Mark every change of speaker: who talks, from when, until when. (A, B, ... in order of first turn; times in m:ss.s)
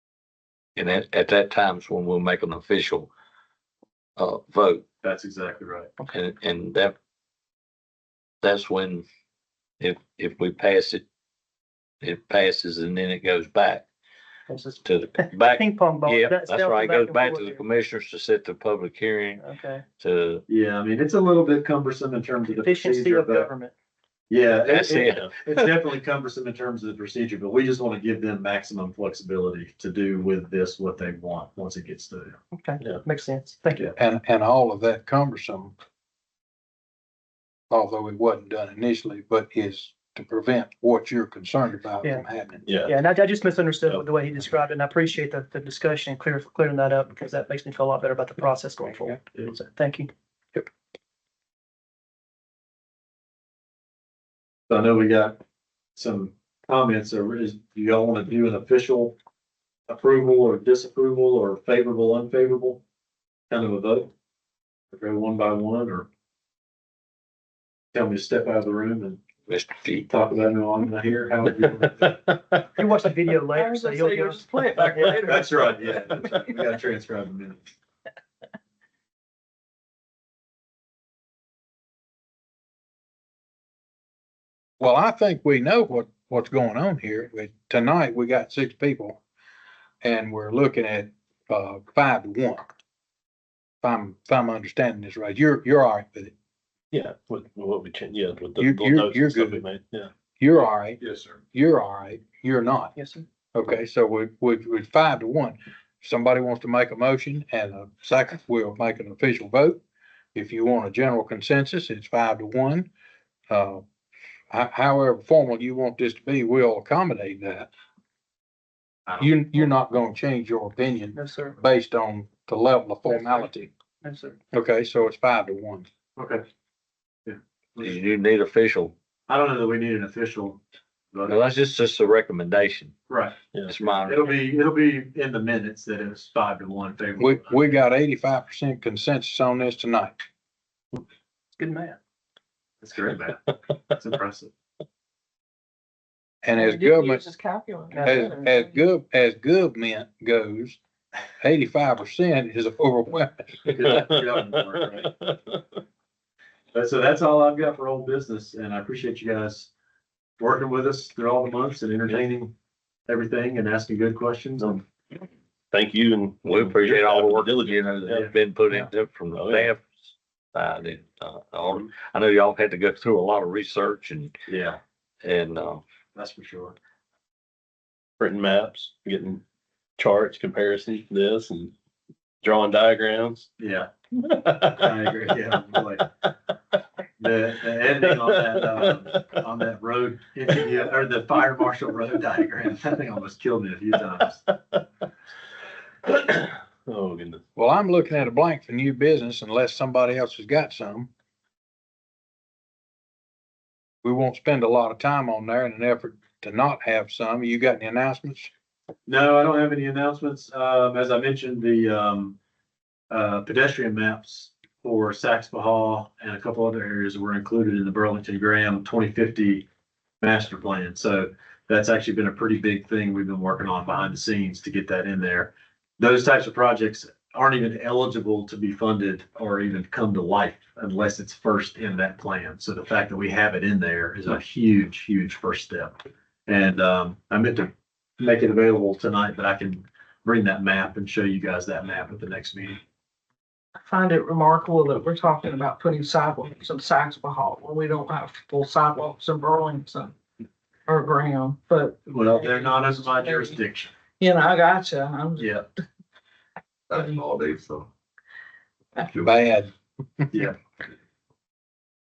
0:00.8-0:03.1 A
0:04.2-0:04.9 A
0:05.0-0:05.9 B
0:06.1-0:07.0 A
0:08.4-0:09.0 A
0:09.8-0:11.0 A
0:12.0-0:13.9 A
0:14.5-0:17.6 C
0:14.8-0:19.5 A
0:19.4-0:19.8 C
0:20.0-0:20.4 A
0:20.5-0:23.5 B
0:22.5-0:23.7 C
0:24.3-0:32.4 B
0:24.6-0:25.2 A
0:32.5-0:33.9 C
0:34.0-0:35.7 D
0:37.7-0:42.6 D
0:42.7-0:43.0 E
0:42.8-0:50.1 C
0:54.7-0:55.4 B
0:56.0-0:59.2 B
0:59.9-1:02.8 B
1:03.5-1:04.1 B
1:04.9-1:06.1 B
1:07.9-1:09.2 B
1:09.5-1:10.1 A
1:10.1-1:12.6 B
1:12.8-1:15.2 C
1:13.5-1:16.4 F
1:15.1-1:17.7 B
1:24.8-1:29.2 D
1:30.0-1:32.7 D
1:33.8-1:36.3 D
1:36.9-1:40.1 E
1:38.6-1:39.6 D
1:40.4-1:41.0 D
1:41.0-1:41.4 E
1:41.5-1:43.0 D
1:43.0-1:43.2 C
1:43.5-1:49.8 D
1:50.4-1:52.9 D
1:53.5-1:53.8 D
1:54.5-1:57.7 D
1:59.2-2:03.7 D
2:01.2-2:01.6 C
2:03.1-2:03.5 C
2:04.0-2:04.4 C
2:04.5-2:05.9 D
2:06.2-2:06.4 B
2:07.3-2:08.0 B
2:07.8-2:08.9 A
2:09.3-2:10.6 B
2:11.1-2:11.4 B
2:11.3-2:13.0 A
2:13.1-2:17.6 B
2:13.7-2:14.3 A
2:17.2-2:20.2 D
2:21.6-2:22.0 C
2:22.8-2:24.5 B
2:26.4-2:27.2 D
2:26.5-2:28.8 F
2:27.9-2:28.3 C
2:28.0-2:30.8 D
2:31.4-2:33.6 D
2:33.6-2:35.1 B
2:34.0-2:34.6 E
2:35.2-2:35.6 E
2:36.7-2:39.7 B
2:40.4-2:42.5 B
2:43.1-2:44.8 B
2:45.7-2:48.3 E
2:46.4-2:50.0 A
2:48.1-2:48.9 B
2:49.4-2:49.7 E
2:50.5-2:54.3 A
2:54.5-2:54.8 B
2:55.2-2:55.8 A
2:56.2-2:56.8 B
2:58.2-2:59.4 E
3:00.0-3:01.7 E
3:02.4-3:03.5 E
3:03.6-3:06.1 B
3:07.2-3:14.5 B
3:16.1-3:17.4 E
3:17.6-3:21.1 D
3:24.0-3:28.5 D
3:29.1-3:32.4 B
3:33.1-3:39.7 B
3:40.2-3:55.9 B
3:56.5-4:02.8 B
4:03.8-4:10.2 F
4:10.9-4:13.6 F
4:12.1-4:13.9 B
4:14.2-4:15.6 F
4:15.4-4:15.7 B
4:16.9-4:17.9 A
4:19.0-4:19.4 A
4:19.2-4:19.7 D